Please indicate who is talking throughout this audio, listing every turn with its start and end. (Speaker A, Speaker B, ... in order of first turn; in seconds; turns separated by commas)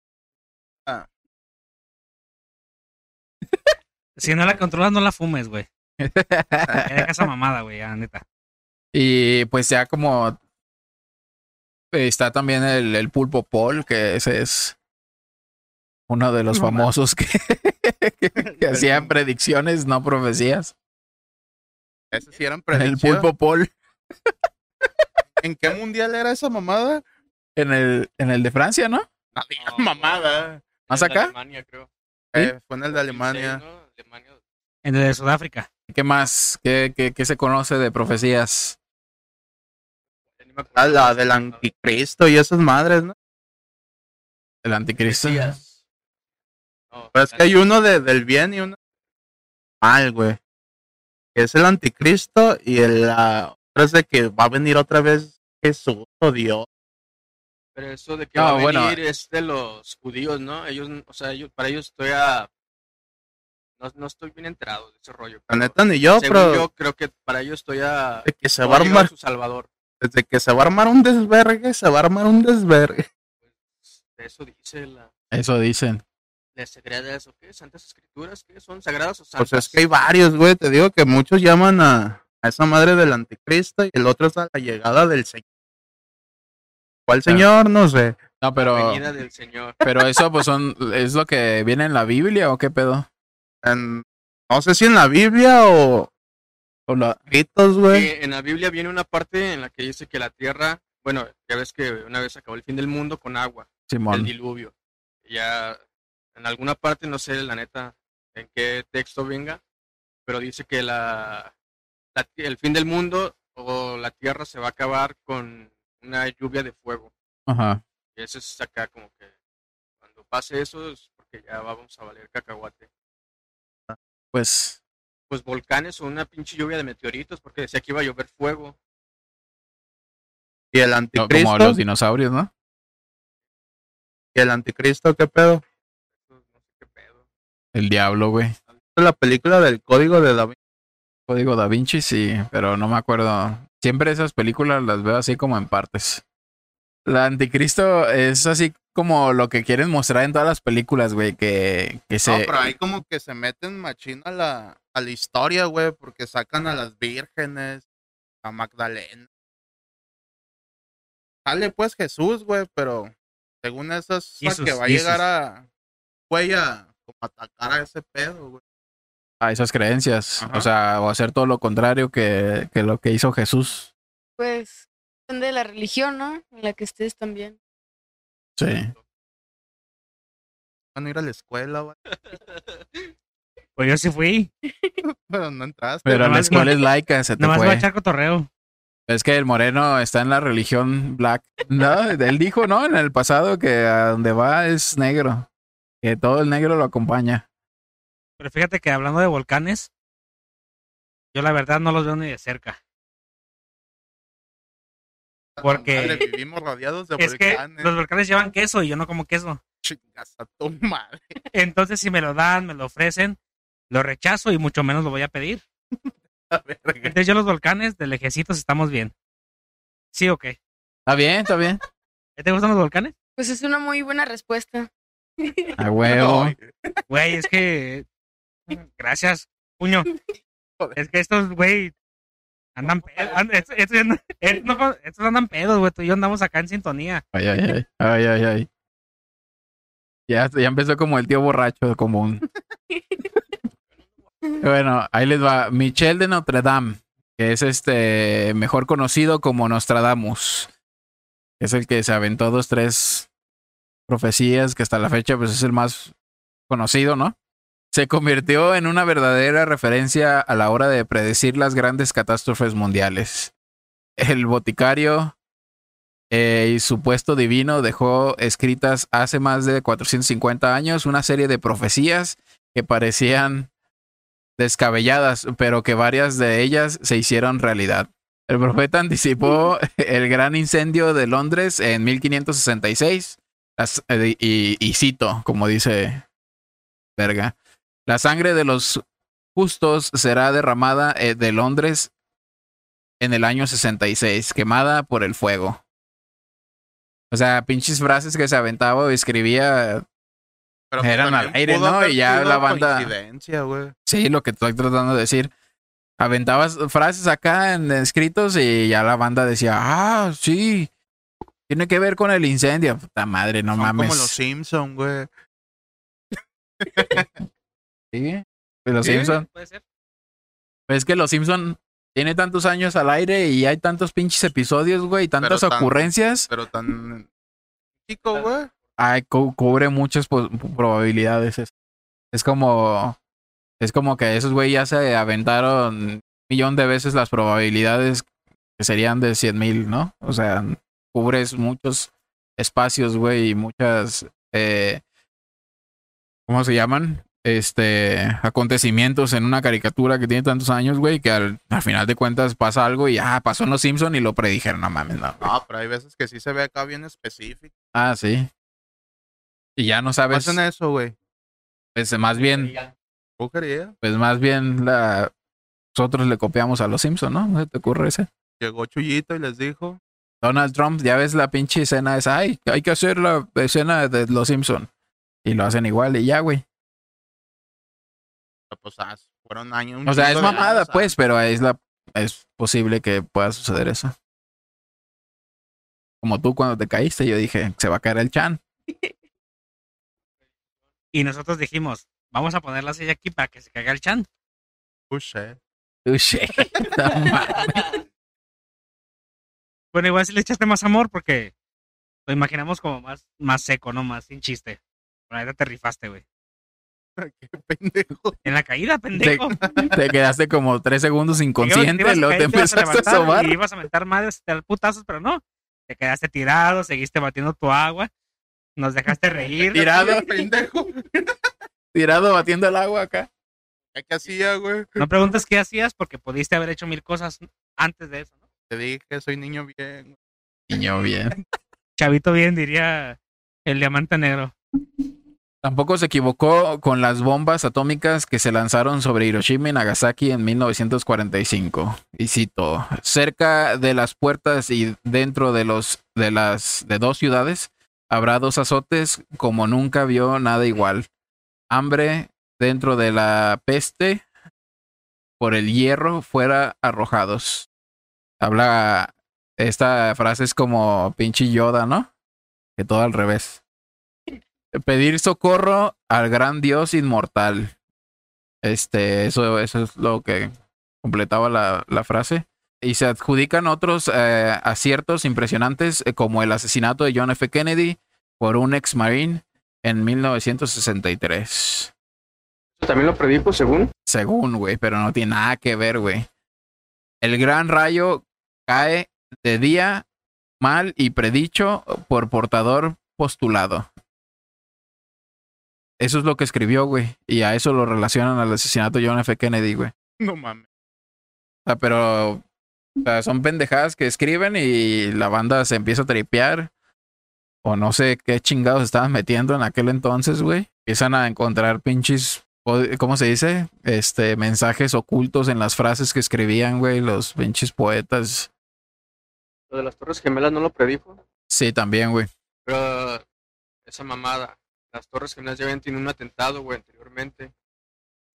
Speaker A: 4.2-5.7, Speaker B: 6.0-7.1, Speaker A: 6.8-8.2, Speaker B: 8.9-10.4, Speaker B: 11.9-14.8, Speaker B: 16.1-20.7, Speaker C: 16.5-16.9, Speaker C: 18.4-19.1, Speaker C: 22.1-23.3, Speaker B: 22.7-23.7, Speaker C: 25.4-27.0, Speaker B: 27.6-29.1, Speaker C: 29.3-30.7, Speaker D: 29.6-30.2, Speaker D: 30.9-31.9, Speaker B: 30.9-31.3, Speaker C: 32.3-33.6, Speaker D: 32.9-34.4, Speaker A: 34.8-35.7, Speaker B: 35.9-38.8, Speaker D: 40.4-41.7, Speaker C: 40.8-43.1, Speaker B: 44.6-45.6, Speaker D: 45.0-45.8, Speaker D: 46.9-47.6, Speaker C: 47.1-48.8, Speaker C: 49.8-50.4, Speaker C: 51.4-56.7, Speaker D: 57.8-62.5, Speaker B: 58.4-59.0, Speaker D: 63.8-69.7, Speaker C: 65.5-66.7, Speaker C: 68.2-69.1, Speaker C: 70.0-73.1, Speaker D: 73.5-75.1, Speaker B: 75.3-76.0, Speaker D: 76.5-79.8, Speaker C: 79.4-85.4, Speaker C: 87.1-88.2, Speaker B: 88.4-89.0, Speaker D: 88.7-89.8, Speaker B: 89.8-93.1, Speaker C: 93.6-96.1, Speaker B: 96.9-97.2, Speaker C: 97.3-98.1, Speaker D: 97.9-104.7, Speaker B: 103.9-104.3, Speaker D: 105.2-105.8, Speaker D: 106.3-109.6, Speaker D: 110.3-111.5, Speaker D: 112.2-117.1, Speaker B: 117.5-117.8, Speaker D: 118.2-119.3, Speaker D: 120.0-122.9, Speaker B: 124.3-124.8, Speaker D: 125.3-128.8, Speaker C: 130.7-131.8, Speaker B: 131.2-132.5, Speaker C: 134.3-135.6, Speaker D: 136.3-137.2, Speaker B: 137.7-138.6, Speaker C: 139.0-140.6, Speaker B: 141.3-146.2, Speaker B: 147.1-152.7, Speaker C: 152.2-157.8, Speaker C: 158.4-159.2, Speaker C: 161.5-165.7, Speaker A: 164.4-165.2, Speaker C: 166.3-168.6, Speaker B: 169.4-173.9, Speaker C: 170.4-170.7, Speaker E: 174.4-177.6, Speaker B: 178.6-178.9, Speaker D: 178.6-179.0, Speaker C: 180.9-182.0, Speaker D: 182.1-182.8, Speaker A: 183.8-184.5, Speaker C: 185.1-186.7, Speaker B: 186.1-187.9, Speaker A: 186.1-186.8, Speaker A: 187.4-188.5, Speaker B: 189.1-195.5, Speaker B: 196.0-197.4, Speaker A: 198.4-199.9, Speaker A: 201.3-202.8, Speaker C: 205.6-207.9, Speaker A: 205.6-206.3, Speaker A: 207.2-209.6, Speaker C: 209.8-211.2, Speaker A: 211.5-213.4, Speaker A: 213.9-215.6, Speaker C: 216.5-217.1, Speaker A: 217.1-219.1, Speaker A: 220.1-220.6, Speaker B: 221.1-221.8, Speaker A: 222.4-223.1, Speaker E: 223.4-225.7, Speaker B: 225.8-226.6, Speaker C: 226.0-226.9, Speaker A: 227.1-228.1, Speaker A: 228.7-230.1, Speaker A: 230.9-231.9, Speaker A: 232.8-237.2, Speaker B: 237.3-238.7, Speaker B: 240.3-242.4, Speaker B: 244.6-250.7, Speaker B: 251.6-253.3, Speaker B: 254.1-256.1, Speaker B: 256.7-257.4, Speaker B: 257.9-263.5, Speaker B: 264.2-265.4, Speaker B: 266.3-273.7, Speaker B: 274.6-286.2, Speaker B: 287.2-287.6, Speaker B: 288.1-289.0, Speaker B: 289.6-292.1, Speaker B: 293.2-295.8, Speaker B: 297.3-300.1, Speaker C: 300.9-303.9, Speaker B: 301.0-303.1, Speaker B: 304.1-305.5, Speaker B: 306.2-310.9, Speaker B: 311.7-314.4, Speaker C: 313.7-315.3, Speaker C: 316.8-317.3, Speaker B: 318.1-319.5, Speaker C: 319.0-319.3, Speaker A: 319.2-319.8, Speaker B: 320.9-326.5, Speaker C: 325.4-327.3, Speaker C: 328.1-328.7, Speaker B: 329.0-331.7, Speaker B: 332.3-333.2, Speaker B: 333.8-338.3, Speaker B: 338.8-345.0, Speaker B: 346.5-355.5, Speaker C: 355.4-357.7, Speaker B: 357.9-358.5, Speaker B: 359.8-360.6, Speaker C: 360.3-361.1, Speaker B: 361.9-362.7, Speaker D: 362.5-362.9, Speaker C: 363.4-363.9, Speaker B: 364.0-365.3, Speaker B: 365.9-368.3, Speaker C: 368.6-370.0, Speaker B: 370.4-374.9, Speaker B: 375.4-376.6, Speaker C: 378.7-381.1, Speaker B: 380.1-384.1, Speaker B: 386.2-388.6, Speaker A: 391.1-394.3, Speaker C: 395.1-395.6, Speaker B: 396.1-397.8, Speaker A: 399.9-401.5, Speaker A: 402.3-404.8, Speaker A: 405.3-406.2, Speaker C: 407.2-408.4, Speaker A: 408.4-409.6, Speaker B: 409.1-413.6, Speaker A: 411.6-418.1, Speaker A: 418.8-419.9, Speaker B: 419.7-420.4, Speaker C: 419.7-421.1, Speaker B: 421.9-423.3, Speaker C: 423.9-425.0, Speaker A: 425.0-428.4, Speaker C: 428.7-430.1, Speaker B: 430.7-431.4, Speaker A: 432.0-434.5, Speaker B: 435.6-451.1, Speaker B: 451.7-454.2, Speaker B: 455.4-457.7, Speaker B: 458.4-462.1, Speaker B: 462.8-463.6, Speaker B: 464.7-467.7, Speaker B: 468.6-470.5, Speaker B: 471.0-481.9, Speaker D: 482.8-483.9, Speaker B: 484.1-486.3, Speaker B: 487.2-490.1, Speaker B: 490.6-493.9, Speaker B: 496.0-499.9, Speaker C: 500.2-500.7, Speaker B: 501.7-502.4, Speaker B: 503.0-506.7, Speaker B: 507.6-518.5, Speaker D: 519.7-521.2, Speaker B: 521.5-522.3, Speaker D: 522.7-523.2, Speaker D: 523.9-527.5